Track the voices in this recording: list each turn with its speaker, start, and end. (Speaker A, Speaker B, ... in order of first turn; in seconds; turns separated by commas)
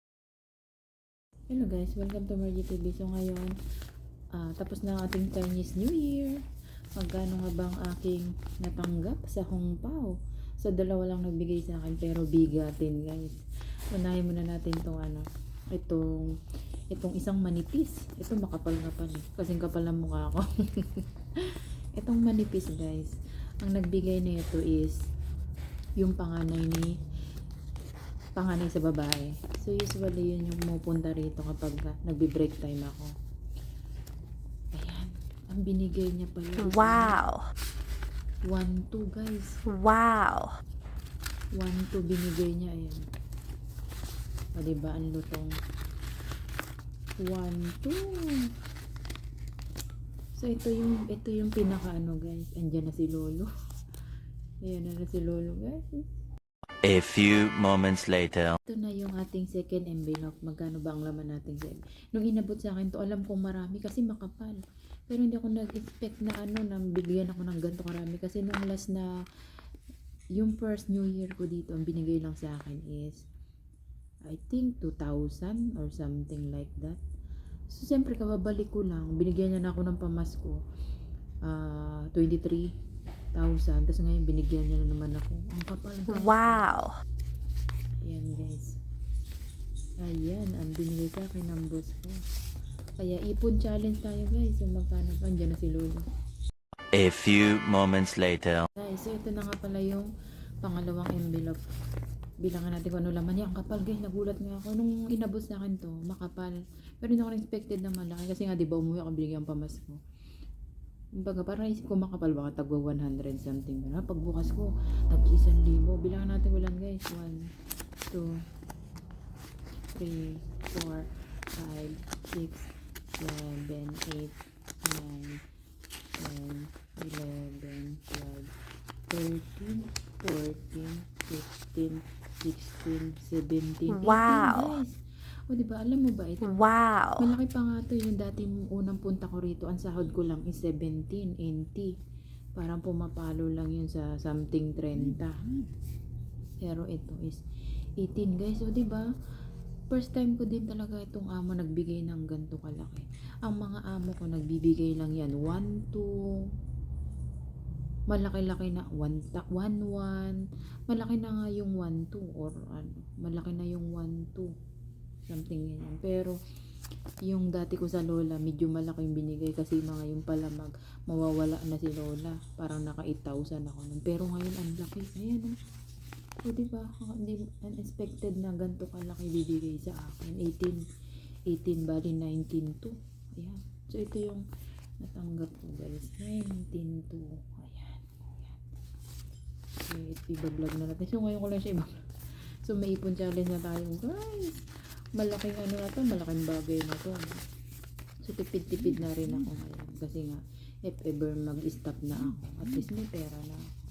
Speaker A: 1.5-3.5, Speaker A: 4.4-6.3, Speaker A: 7.0-13.4, Speaker A: 13.9-16.3, Speaker A: 16.9-21.0, Speaker A: 22.0-24.9, Speaker A: 26.0-26.9, Speaker A: 28.4-33.1, Speaker A: 34.7-37.2, Speaker B: 36.6-37.4, Speaker A: 38.5-39.5, Speaker B: 39.7-40.5, Speaker A: 41.6-43.0, Speaker A: 44.6-45.5, Speaker A: 47.2-48.0, Speaker A: 50.4-53.5, Speaker A: 54.6-56.0, Speaker C: 56.9-58.6, Speaker A: 58.7-64.6, Speaker A: 65.1-69.1, Speaker A: 70.4-73.2, Speaker A: 74.3-77.0, Speaker A: 77.7-80.6, Speaker A: 81.5-82.7, Speaker A: 83.3-86.7, Speaker B: 86.1-86.9, Speaker A: 88.0-88.7, Speaker A: 90.0-92.2, Speaker A: 93.0-96.0, Speaker C: 96.9-98.7, Speaker A: 98.8-100.1, Speaker A: 100.6-101.6, Speaker A: 102.4-110.0, Speaker A: 111.2-117.4, Speaker A: 119.9-121.0, Speaker A: 121.6-125.4, Speaker A: 126.2-128.5, Speaker A: 129.1-134.9, Speaker B: 133.9-134.7, Speaker A: 135.5-136.6, Speaker B: 136.4-137.2, Speaker A: 137.2-141.9, Speaker A: 142.6-145.4, Speaker A: 146.6-147.4, Speaker A: 148.0-149.1, Speaker A: 149.9-156.1, Speaker A: 158.1-164.5, Speaker A: 165.3-166.3, Speaker A: 167.3-175.5, Speaker A: 176.4-180.8, Speaker A: 181.5-184.4, Speaker A: 185.0-188.6, Speaker A: 189.9-191.9, Speaker A: 192.6-194.6, Speaker A: 195.2-197.4, Speaker A: 198.2-203.6